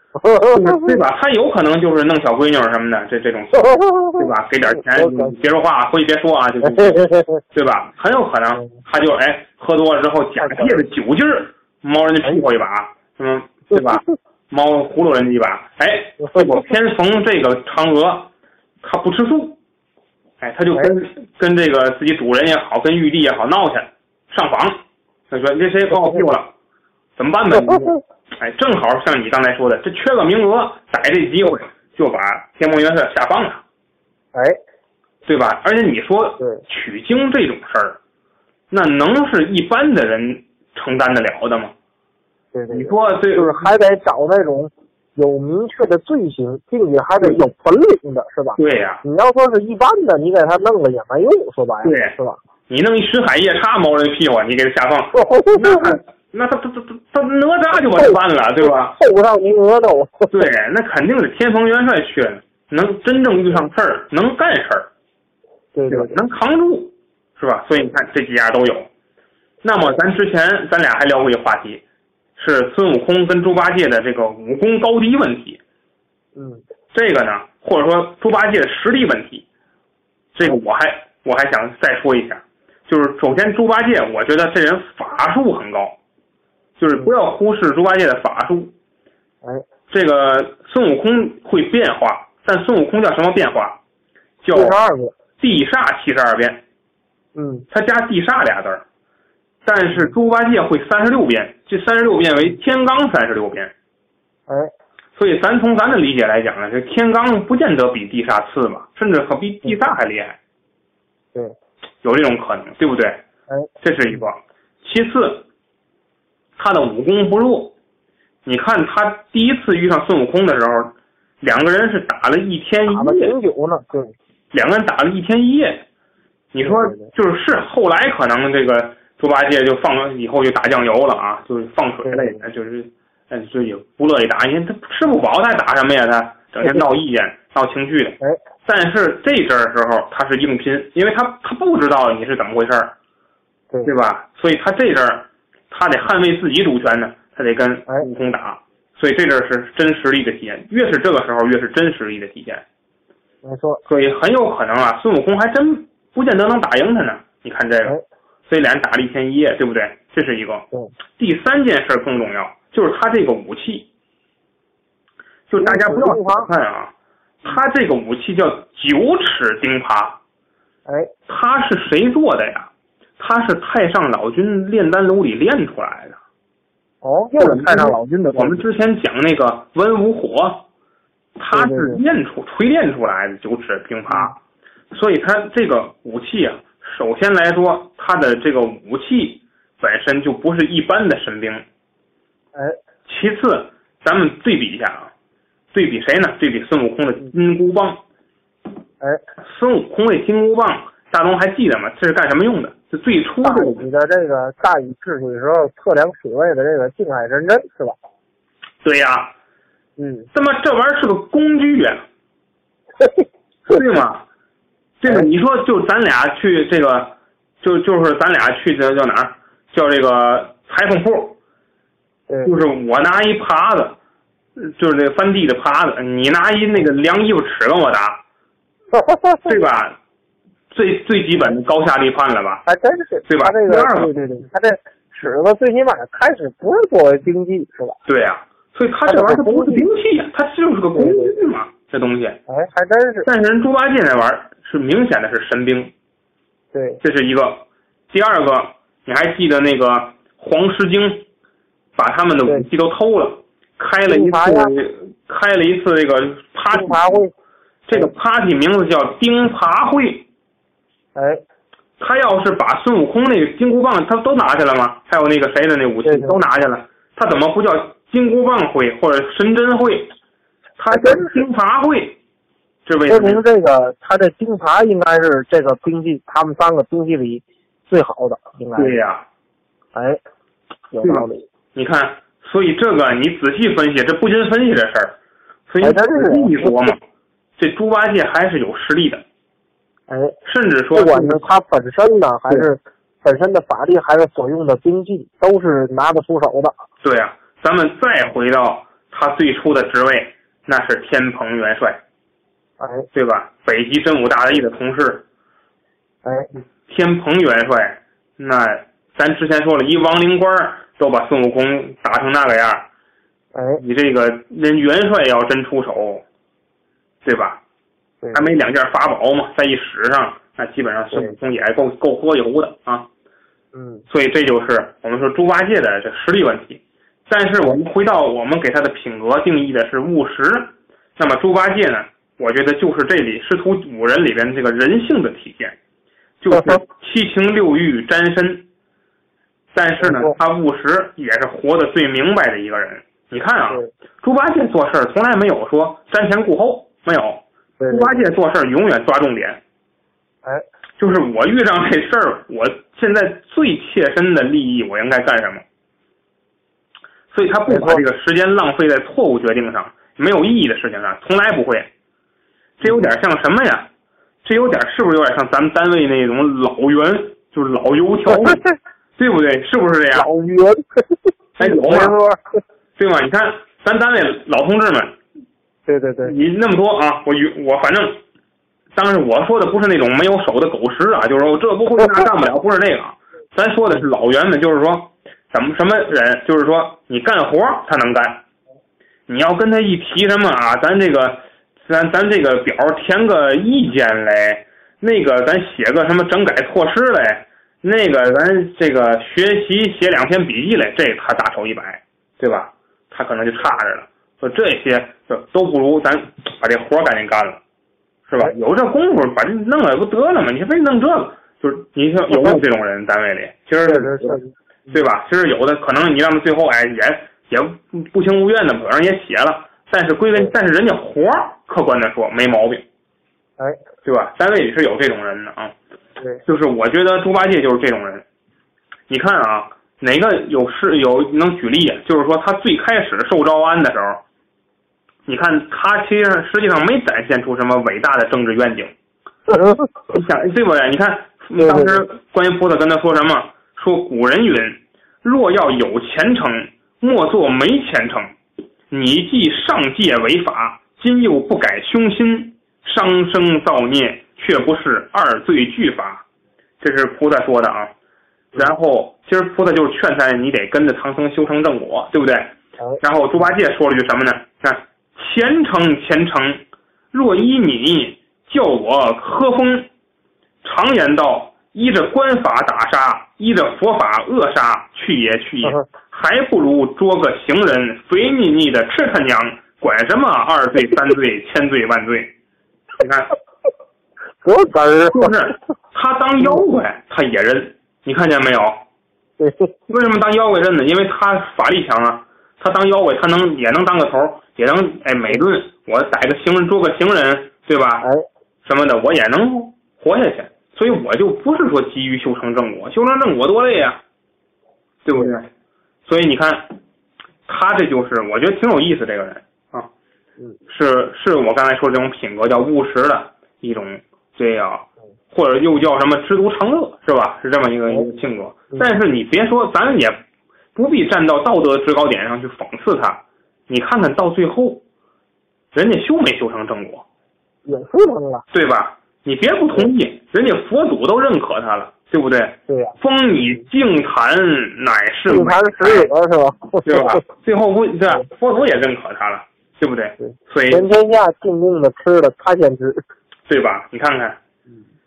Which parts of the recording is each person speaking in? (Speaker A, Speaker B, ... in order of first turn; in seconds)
Speaker A: 0.1-1.0, 3.5-5.3, 6.6-7.4, 10.4-10.8, 13.7-14.0, 16.2-16.7, 25.9-26.2, 27.5-28.0, 42.5-52.4, 55.1-56.0, 57.9-60.5, 65.7-66.2, 76.3-76.6, 94.5-95.1, 97.3-97.7, 113.5-114.2, 122.9-124.1, 126.6-127.1, 132.0-132.4, 153.4-153.8, 165.6-166.5, 177.0-178.6, 181.5-182.0, 184.1-184.3, 203.4-207.9, 210.0-210.3, 213.0-213.8, 228.9-229.6, 232.7-238.0, 239.1-239.8, 240.9-241.3, 242.5-243.3, 246.7-247.0, 254.1-254.7, 256.7-257.3, 261.1-261.4, 266.0-266.4, 270.9-271.4, 273.1-279.0, 279.9-280.2, 280.9-281.4, 285.8-286.7, 290.1-290.4, 290.9-296.7, 302.8-303.1, 306.2-306.5, 313.5-313.8, 318.2-318.5, 323.7-324.0, 336.5-336.8, 340.0-340.3, 347.8-348.2, 357.7-358.0, 368.3-368.7, 370.1-372.6, 375.9-376.3, 412.3-412.6, 413.9-415.0, 439.5-439.9, 441.6-442.0, 484.4-485.3, 489.4-489.7, 527.6-528.4, 532.7-532.9, 535.3-537.2, 540.2-543.0
Speaker B: 0.5-18.3, 18.8-19.6, 20.4-26.5, 27.2-33.6, 35.2-38.0, 38.7-41.7, 42.7-43.7, 48.6-49.0, 51.8-52.1, 52.7-59.0, 60.3-64.9, 65.9-68.9, 69.6-71.8, 72.4-75.6, 76.9-79.5, 80.3-86.0, 86.8-88.7, 89.9-93.8, 94.4-94.8, 95.4-96.6, 97.7-98.8, 99.6-103.7, 105.2-110.4, 112.0-113.2, 113.8-115.5, 116.6-117.7, 118.4-123.3, 124.5-125.8, 126.5-142.9, 143.8-152.6, 153.9-160.7, 161.2-163.9, 165.5-170.2, 171.3-176.2, 177.4-180.6, 181.4-184.3, 184.9-191.6, 193.1-195.1, 195.7-198.0, 199.4-203.8, 208.8-209.3, 210.3-212.0, 213.7-214.2, 215.0-221.4, 222.4-223.9, 224.6-228.2, 229.4-230.0, 230.7-232.6, 233.2-234.1, 238.1-242.4, 243.2-245.9, 247.0-251.2, 251.9-257.2, 257.9-260.2, 262.0-270.1, 270.8-272.2, 272.9-273.4, 278.8-279.2, 281.0-285.1, 285.7-287.0, 287.6-289.2, 290.4-291.4, 297.0-302.0, 303.1-305.2, 306.9-312.9, 313.8-316.2, 317.2-317.6, 318.3-323.1, 324.1-335.8, 336.4-338.6, 339.7-349.6, 351.0-355.6, 357.3-361.9, 362.8-363.9, 364.4-368.6, 369.2-370.3, 371.6-372.1, 373.0-375.1, 376.2-378.2, 378.9-388.4, 389.3-407.6, 408.3-414.4, 414.9-422.8, 424.0-425.7, 426.4-428.2, 429.1-434.2, 435.3-438.9, 440.1-448.3, 448.9-456.2, 456.8-457.9, 458.5-466.6, 467.1-469.9, 470.6-482.3, 483.0-483.3, 485.1-488.8, 489.9-498.1, 498.6-504.0, 505.0-505.5, 506.1-506.8, 507.4-509.9, 510.7-520.2, 520.7-524.8, 525.7-527.0, 528.5-536.1, 536.8-540.9, 543.5-544.4